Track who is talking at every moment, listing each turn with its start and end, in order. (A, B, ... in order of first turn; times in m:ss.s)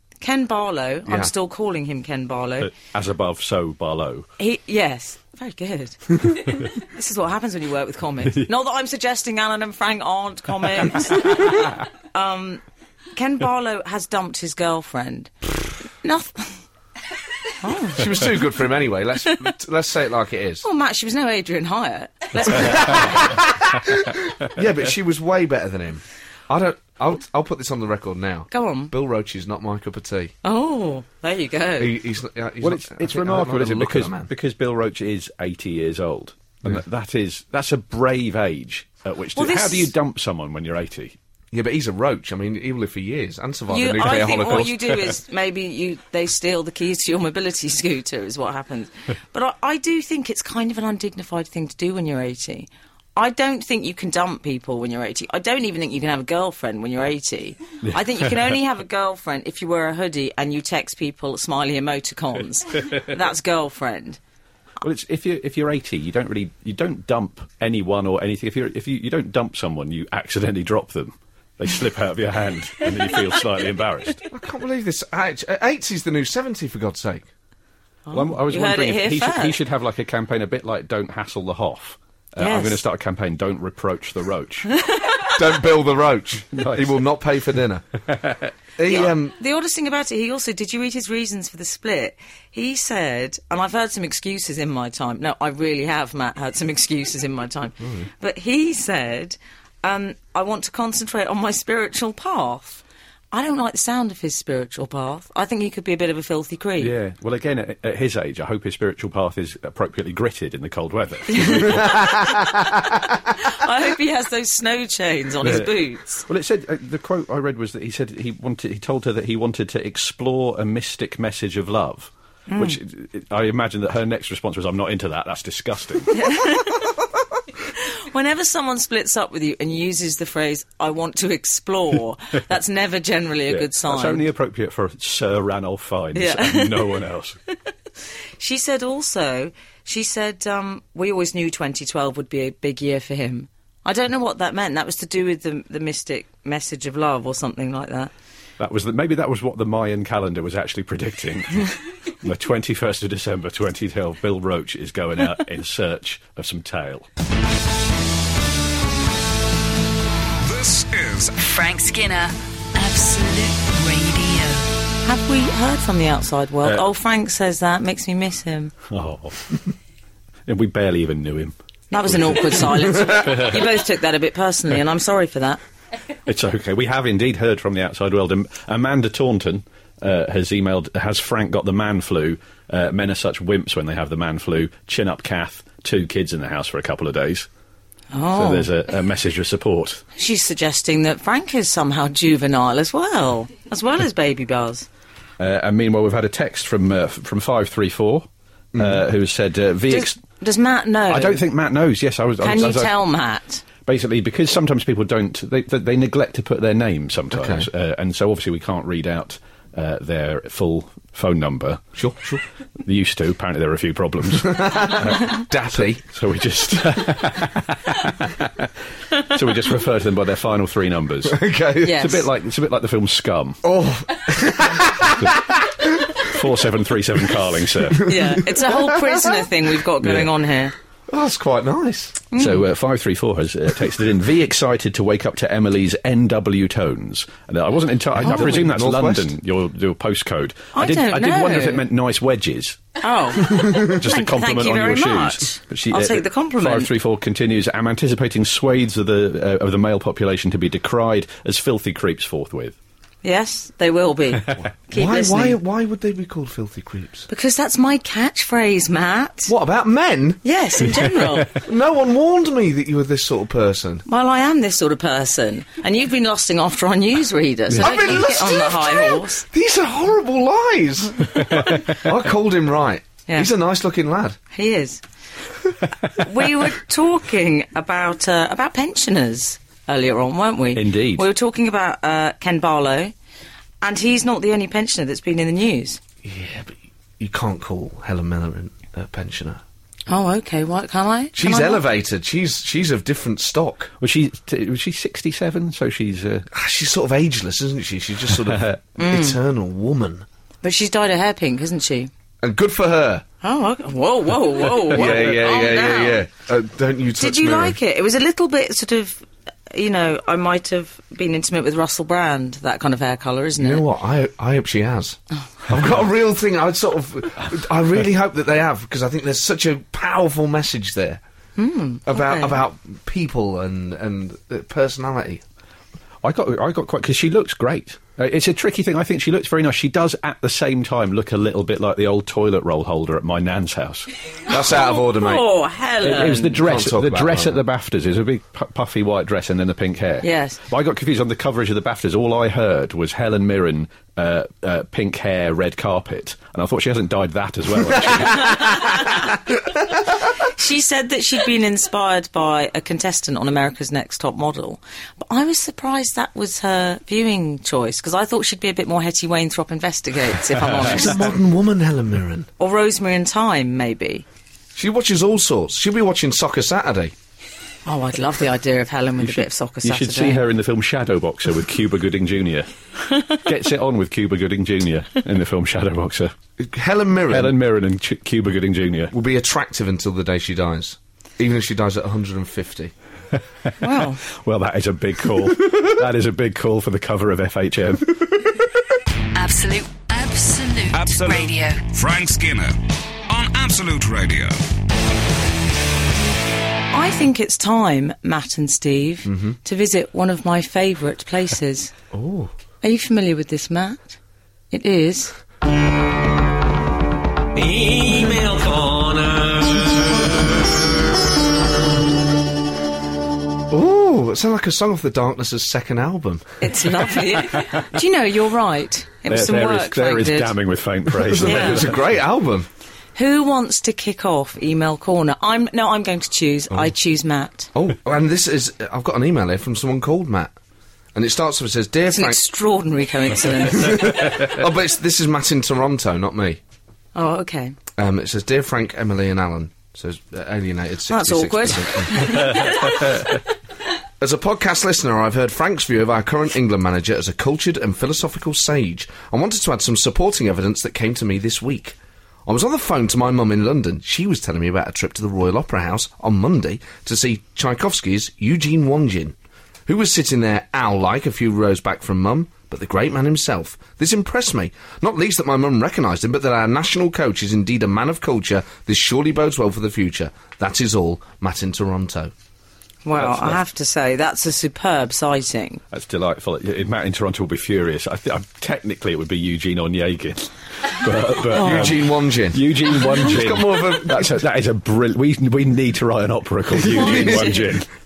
0:00.2-0:02.7 A
0:02.7-0:04.3 B
0:04.4-0:12.6 A
0:13.2-0:15.3 A
0:15.8-0:16.6 A
0:17.6-0:18.2 A
0:17.9-0:20.6 C
0:20.6-0:23.4 A
0:22.5-0:30.3 C
0:28.5-0:28.9 A
0:30.4-0:32.0 A
0:31.8-0:34.3 C
0:32.6-0:41.2 B
0:39.4-0:39.9 A
0:41.5-0:44.8 C
0:43.7-1:04.2 A
1:04.8-1:14.2 B
1:14.3-1:17.3 C
1:18.1-1:19.6 A
1:18.1-1:24.7 B
1:22.4-1:22.8 A
1:24.9-1:25.1 A
1:25.2-1:27.8 C
1:26.5-1:27.0 B
1:28.1-1:28.5 B
1:28.8-1:29.4 C
1:28.9-1:46.9 A
1:37.8-1:38.1 C
1:46.8-1:52.2 B
1:51.3-1:52.5 A
1:53.2-1:56.2 A
1:55.4-2:06.2 B
2:02.5-2:02.8 A
2:06.1-2:06.8 A
2:08.1-2:14.2 A
2:13.5-2:17.4 B
2:16.1-2:17.0 A
2:18.4-2:28.1 A
2:28.6-2:37.1 B
2:40.4-2:41.4 D
2:41.4-2:44.7 E
2:45.0-2:48.7 A
2:48.9-2:49.5 B
2:50.5-2:53.7 B
2:51.9-2:55.6 A
2:56.3-3:07.5 B
3:08.1-3:08.7 A
3:08.4-3:10.0 B
3:10.2-3:14.9 A
3:15.4-3:20.2 B
3:18.7-3:19.0 C
3:19.9-3:21.4 A
3:21.1-3:23.0 B
3:22.4-3:23.6 A
3:23.8-3:31.8 B
3:27.3-3:27.7 C
3:32.0-3:32.4 C
3:32.8-3:35.4 B
3:34.4-3:36.0 C
3:36.0-3:41.4 B
3:41.3-3:42.1 C
3:41.8-3:42.2 A
3:42.0-3:43.6 B
3:43.6-3:46.2 C
3:46.2-3:48.1 B
3:48.0-3:49.4 C
3:48.0-3:50.7 A
3:50.0-3:50.3 B
3:51.1-3:52.2 C
3:52.3-3:52.6 A
3:52.4-4:12.8 B
3:58.2-3:59.3 C
3:58.2-3:58.5 A
4:00.7-4:01.8 A
4:03.0-4:06.9 A
4:13.2-4:15.6 A
4:14.6-4:17.3 C
4:17.3-4:19.5 A
4:19.5-4:20.4 C
4:20.4-4:21.5 A
4:21.5-4:24.0 C
4:24.1-4:29.4 A
4:27.8-4:34.4 C
4:31.4-4:32.0 B
4:34.5-4:35.0 A
4:36.1-4:43.1 A
4:40.7-4:41.2 B
4:43.8-4:46.0 A
4:46.2-4:49.6 C
4:50.1-4:51.8 A
4:51.4-4:53.9 C
4:54.0-4:56.5 B
4:56.5-5:00.3 C
4:58.4-4:58.8 B
4:59.0-4:59.4 A
5:00.6-5:02.1 A
5:02.4-5:03.3 C
5:03.4-5:06.3 A
5:05.0-5:07.8 C
5:07.2-5:13.8 A
5:13.6-5:21.2 C
5:21.6-5:22.6 A
5:22.1-5:25.4 C
5:26.2-5:34.1 B
5:34.5-5:35.4 C
5:34.7-5:36.6 A
5:36.0-5:49.0 B
5:36.6-5:37.6 C
5:40.2-5:40.6 A
5:50.4-6:01.3 A
6:00.8-6:02.5 C
6:02.6-6:04.2 A
6:04.8-6:07.1 C
6:07.9-6:10.4 A
6:09.2-6:16.3 B
6:16.6-6:17.6 C
6:17.3-6:19.1 B
6:19.1-6:22.9 C
6:23.8-6:24.2 A
6:24.3-6:28.2 B
6:29.4-6:31.8 E
6:30.9-6:34.6 D
6:36.9-6:41.9 A
6:39.3-6:39.6 C
6:42.1-6:42.5 C
6:42.8-6:44.2 A
6:44.7-6:45.4 A
6:47.6-6:50.3 F
6:53.7-6:56.5 C
6:56.6-7:00.5 A
6:59.3-7:02.1 B
7:01.2-7:02.7 C
7:01.4-7:01.9 A
7:03.2-7:07.7 A
7:07.7-7:10.6 C
7:11.1-7:12.4 C
7:12.1-7:14.4 A
7:13.7-7:16.6 C
7:17.2-7:17.8 A
7:18.0-7:22.6 C
7:21.1-7:23.0 A
7:22.6-7:23.1 B
7:24.2-7:52.3 C
7:53.0-7:55.8 A
7:53.2-7:53.6 B
7:55.9-8:07.9 B
8:01.5-8:04.4 C
8:01.5-8:02.0 A
8:06.9-8:07.7 C
8:07.0-8:07.6 A